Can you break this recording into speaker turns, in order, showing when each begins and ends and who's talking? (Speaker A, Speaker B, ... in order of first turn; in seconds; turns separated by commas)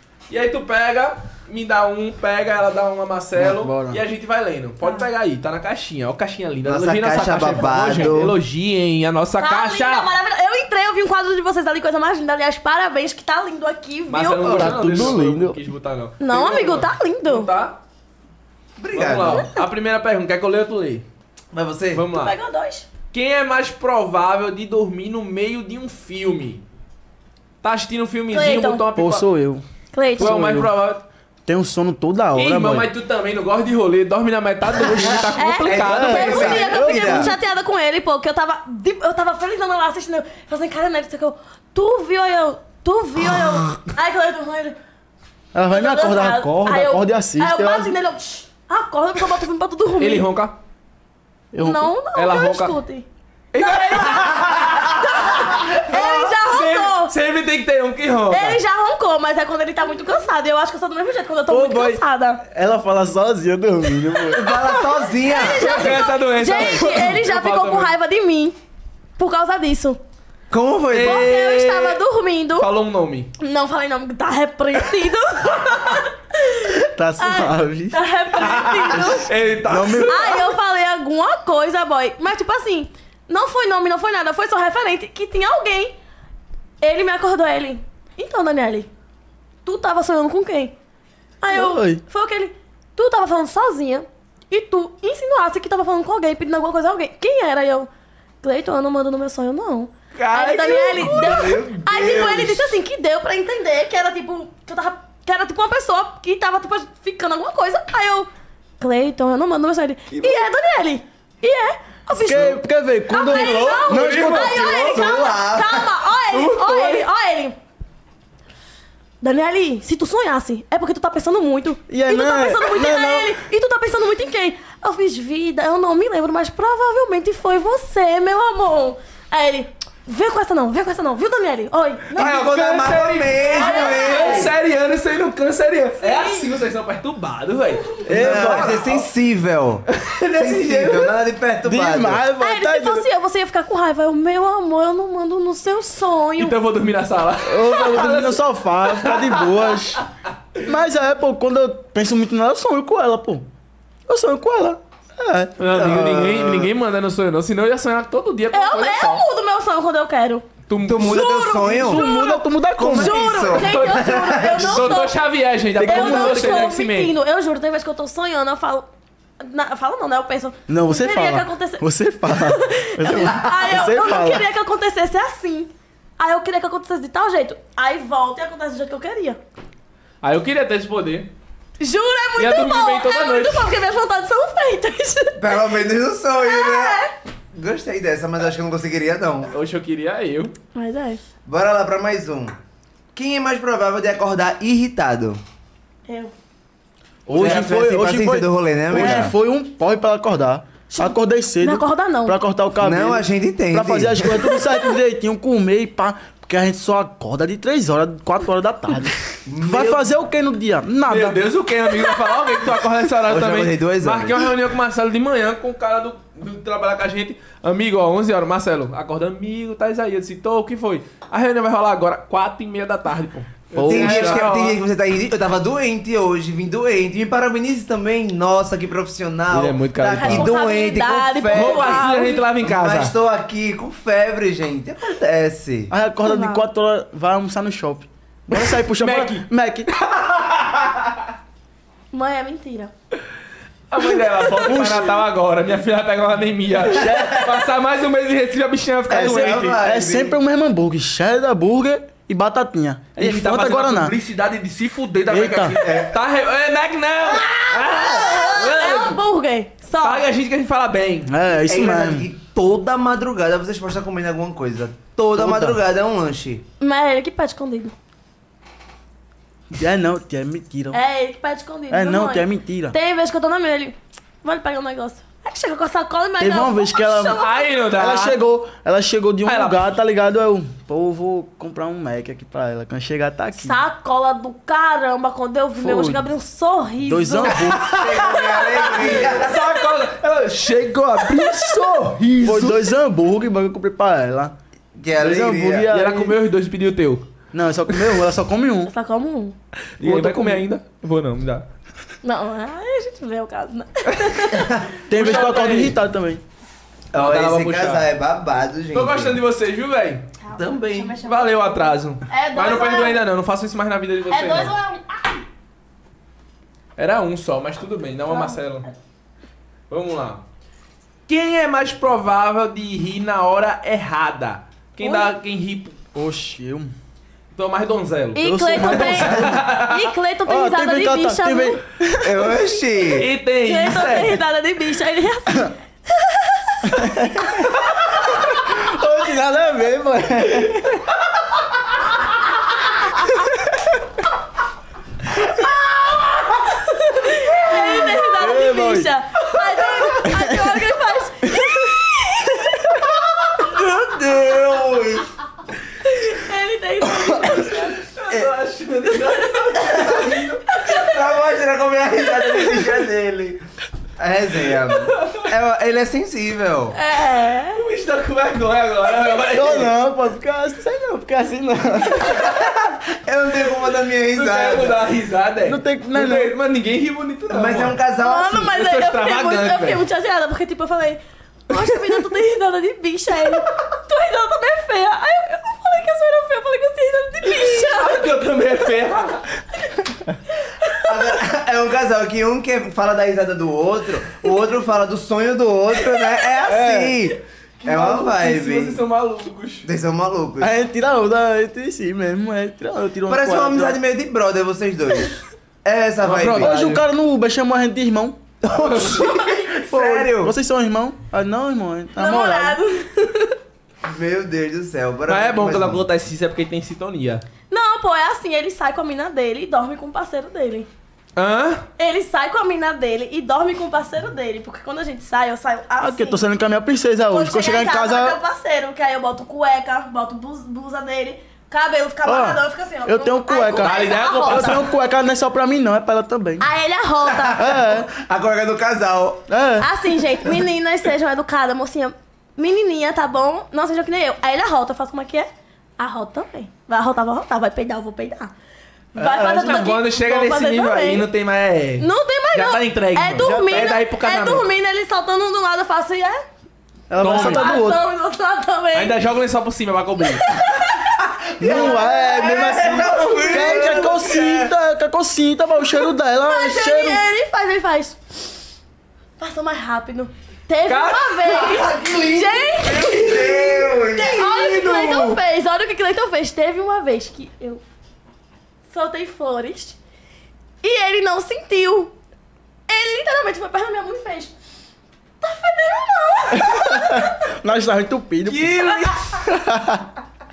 Speaker A: 0.3-10.1, Speaker B: 3.4-4.0, Speaker C: 4.8-5.1, Speaker D: 6.6-8.4, Speaker C: 9.4-14.8, Speaker A: 14.1-17.8, Speaker B: 14.4-15.6, Speaker C: 16.2-17.5, Speaker D: 18.8-19.5, Speaker A: 18.9-21.1, Speaker C: 19.3-19.7, Speaker D: 21.5-22.0, Speaker A: 21.9-22.4, Speaker C: 22.1-22.9, Speaker A: 23.1-26.6, Speaker A: 27.6-29.3, Speaker C: 28.3-28.8, Speaker B: 29.0-29.6, Speaker C: 29.9-30.4, Speaker B: 30.2-30.7, Speaker A: 30.2-31.1, Speaker B: 31.5-32.9, Speaker A: 32.4-36.6, Speaker B: 34.8-37.4, Speaker D: 34.9-37.3, Speaker C: 35.4-44.8, Speaker B: 45.5-47.9, Speaker C: 45.7-50.3, Speaker A: 50.0-50.6, Speaker B: 51.5-51.9, Speaker C: 51.6-53.1, Speaker A: 52.1-52.8, Speaker A: 53.5-58.6, Speaker C: 53.6-57.1, Speaker D: 55.9-56.3, Speaker C: 58.3-62.4, Speaker B: 61.5-64.5, Speaker C: 64.1-68.6, Speaker D: 64.3-65.9, Speaker A: 65.4-67.9, Speaker C: 69.2-70.0, Speaker D: 70.5-71.4, Speaker A: 70.9-72.0, Speaker C: 71.0-72.7, Speaker A: 72.6-73.3, Speaker C: 73.4-86.0, Speaker B: 76.7-78.0, Speaker A: 78.4-80.5, Speaker B: 79.6-80.4, Speaker C: 86.8-88.9, Speaker C: 89.7-90.7, Speaker C: 91.4-97.9, Speaker B: 91.5-92.0, Speaker C: 98.4-108.3, Speaker A: 100.2-101.4, Speaker D: 100.9-102.8, Speaker C: 108.8-117.5, Speaker A: 110.1-110.5, Speaker B: 112.1-115.1, Speaker A: 113.2-114.7, Speaker D: 114.1-116.0, Speaker A: 116.3-117.0, Speaker C: 119.2-132.3, Speaker B: 121.9-123.4, Speaker A: 132.1-139.1, Speaker D: 132.1-134.5, Speaker C: 133.4-134.5, Speaker C: 136.0-136.5, Speaker B: 138.1-138.8, Speaker D: 138.1-142.2, Speaker A: 139.9-141.1, Speaker B: 141.7-143.1, Speaker C: 142.4-146.6, Speaker A: 146.4-148.3, Speaker B: 147.4-150.1, Speaker C: 147.8-148.4, Speaker A: 148.9-149.6, Speaker B: 150.6-153.5, Speaker B: 154.1-156.5, Speaker A: 155.6-159.2, Speaker D: 155.7-156.7, Speaker C: 158.5-160.4, Speaker A: 160.7-161.3, Speaker D: 160.8-162.1, Speaker C: 161.0-165.2, Speaker B: 161.6-163.5, Speaker D: 162.8-165.1, Speaker A: 163.6-167.1, Speaker B: 165.8-166.8, Speaker C: 165.8-168.9, Speaker C: 169.4-179.4, Speaker B: 170.7-174.4, Speaker A: 180.2-181.3, Speaker C: 181.8-185.7, Speaker A: 182.4-183.7, Speaker D: 185.4-189.5, Speaker C: 186.4-187.1, Speaker A: 189.5-190.5, Speaker C: 190.8-191.2, Speaker D: 191.4-192.6, Speaker D: 193.1-195.4, Speaker C: 196.1-196.3, Speaker B: 197.3-211.4, Speaker D: 197.3-199.3, Speaker C: 198.9-199.3, Speaker C: 200.9-202.4, Speaker D: 202.8-204.5, Speaker C: 204.5-205.0, Speaker D: 209.5-210.1, Speaker A: 211.1-224.8, Speaker C: 211.9-212.7, Speaker D: 213.2-214.5, Speaker B: 223.8-224.4, Speaker D: 223.9-232.1, Speaker A: 229.5-230.6, Speaker C: 230.1-232.5, Speaker A: 231.5-233.1, Speaker D: 232.6-235.9, Speaker B: 235.9-239.9, Speaker C: 236.2-236.6, Speaker A: 238.5-241.2, Speaker C: 242.1-242.9, Speaker A: 243.9-249.8, Speaker B: 244.7-245.1, Speaker B: 246.8-247.6, Speaker D: 249.1-250.4, Speaker B: 249.1-254.2, Speaker A: 253.2-259.2, Speaker B: 255.3-255.8, Speaker D: 255.8-256.1, Speaker C: 257.2-260.2, Speaker A: 260.0-261.3, Speaker B: 261.3-262.3, Speaker D: 261.6-266.6, Speaker B: 265.4-265.8, Speaker C: 266.8-267.9, Speaker B: 269.7-271.0, Speaker C: 270.9-277.8, Speaker B: 271.9-273.0, Speaker B: 276.4-283.8, Speaker A: 277.4-278.4, Speaker A: 279.4-279.9, Speaker C: 283.6-287.8, Speaker B: 285.8-286.3, Speaker B: 287.1-287.9, Speaker A: 287.7-292.9, Speaker D: 287.8-289.6, Speaker B: 292.4-294.5, Speaker D: 295.0-295.9, Speaker B: 295.2-296.4, Speaker A: 295.9-297.3, Speaker B: 297.5-298.9, Speaker C: 298.9-299.6, Speaker A: 300.0-301.7, Speaker B: 300.0-300.6, Speaker C: 302.2-304.7, Speaker D: 304.5-305.0, Speaker B: 305.1-306.4, Speaker A: 305.1-306.0, Speaker A: 307.1-308.1, Speaker D: 307.1-309.4, Speaker A: 308.9-310.3, Speaker C: 310.4-313.2, Speaker D: 310.5-311.2, Speaker A: 311.2-314.8, Speaker C: 314.3-315.4, Speaker A: 317.0-318.9, Speaker C: 318.3-318.9, Speaker A: 319.9-320.4, Speaker A: 321.3-326.0, Speaker C: 325.0-325.3, Speaker B: 326.1-326.9, Speaker A: 327.5-330.1, Speaker C: 328.4-331.8, Speaker B: 328.4-329.7, Speaker B: 330.4-332.6, Speaker D: 332.2-333.3, Speaker A: 333.1-334.4, Speaker C: 333.6-337.0, Speaker B: 336.9-341.0, Speaker C: 346.7-353.1, Speaker B: 347.7-349.1, Speaker B: 350.2-350.7, Speaker D: 353.3-355.3, Speaker C: 356.0-358.1, Speaker A: 358.0-360.7, Speaker C: 359.2-360.2, Speaker D: 359.9-360.3, Speaker C: 360.7-361.3, Speaker D: 360.8-363.6, Speaker D: 364.2-367.0, Speaker A: 364.9-365.5, Speaker C: 366.9-367.8, Speaker A: 367.7-369.9, Speaker B: 369.5-372.4, Speaker D: 372.2-375.0, Speaker A: 374.3-378.0, Speaker B: 375.6-376.6, Speaker D: 377.5-378.8, Speaker C: 378.2-388.7, Speaker A: 378.7-380.0, Speaker A: 387.4-389.5, Speaker C: 389.7-391.4, Speaker D: 391.1-399.0, Speaker B: 396.7-397.1, Speaker A: 396.7-397.1, Speaker A: 397.8-399.9, Speaker D: 399.8-400.7, Speaker B: 400.6-404.0, Speaker D: 403.3-407.0, Speaker A: 406.2-407.0, Speaker B: 406.6-408.4, Speaker D: 408.6-410.6, Speaker A: 408.7-409.5, Speaker B: 409.9-412.8, Speaker C: 412.1-413.6, Speaker D: 414.0-416.0, Speaker A: 415.3-417.4, Speaker C: 417.7-420.9, Speaker A: 421.4-421.9, Speaker C: 422.0-426.4, Speaker B: 426.0-428.4, Speaker C: 427.3-434.9, Speaker B: 432.2-436.7, Speaker A: 433.8-434.9, Speaker C: 436.6-437.6, Speaker D: 437.2-439.4, Speaker B: 437.6-438.1, Speaker B: 439.5-439.9, Speaker C: 439.8-448.5, Speaker C: 449.1-451.3, Speaker B: 449.2-449.9, Speaker A: 449.6-454.7, Speaker C: 452.0-456.4, Speaker B: 453.4-453.9, Speaker B: 457.1-458.0, Speaker A: 457.2-457.8, Speaker C: 457.2-459.2, Speaker A: 458.9-460.4, Speaker C: 460.4-461.1, Speaker D: 461.2-464.7, Speaker B: 461.6-467.2, Speaker C: 466.4-468.5, Speaker C: 469.4-477.8, Speaker A: 470.9-471.5, Speaker D: 471.4-475.4, Speaker C: 478.9-480.0, Speaker C: 480.8-482.1, Speaker C: 482.9-484.5, Speaker C: 485.4-487.3, Speaker B: 486.6-490.1, Speaker A: 488.5-489.4, Speaker C: 488.8-489.3